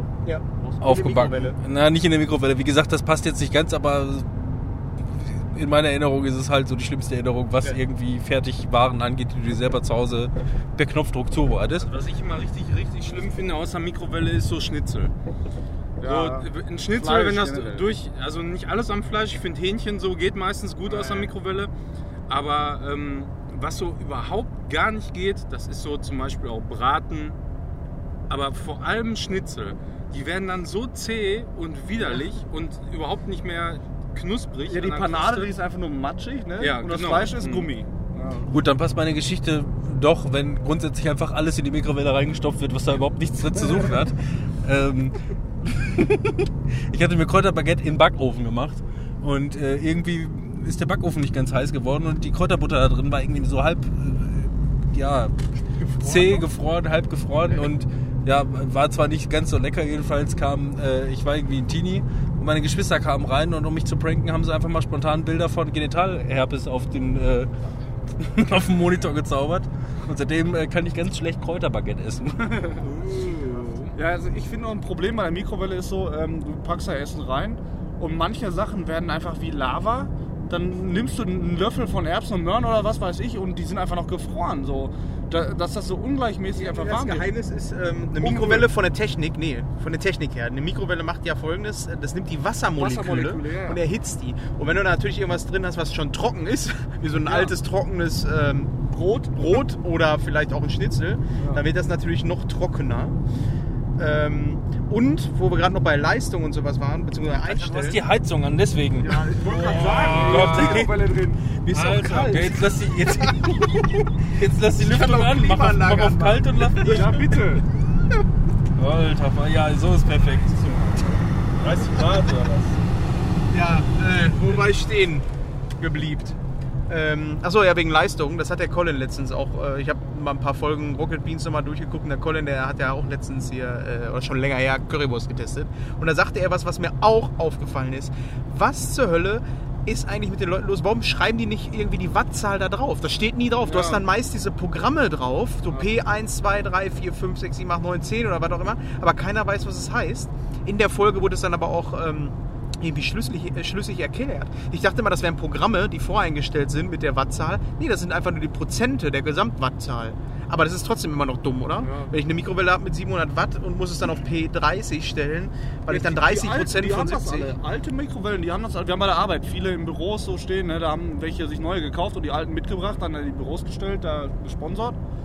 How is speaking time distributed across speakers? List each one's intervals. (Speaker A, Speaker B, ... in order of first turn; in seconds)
Speaker A: 0.2-1.6, 55.7-56.5, 86.5-98.7, 99.3-103.2, 104.0-108.0, 109.4-110.9, 111.6-113.9, 114.7-117.2, 123.5-125.3, 125.8-167.6
Speaker B: 0.8-11.9, 38.5-46.2, 46.9-55.4, 56.0-67.5, 68.2-72.8, 107.5-110.9, 111.7-117.2, 118.8-121.0
Speaker C: 11.8-15.1, 16.0-21.7, 22.3-27.4, 28.3-35.6, 36.6-37.7, 72.8-73.9, 109.5-110.8, 121.6-122.8
Speaker D: 16.0-17.9, 20.8-21.3, 34.7-38.5, 73.9-87.3, 88.2-88.7, 92.8-93.8, 97.2-97.5, 98.9-99.7, 101.4-101.6, 107.6-107.9, 109.0-111.4, 116.8-117.6, 143.6-144.0, 161.8-162.1, 165.9-175.0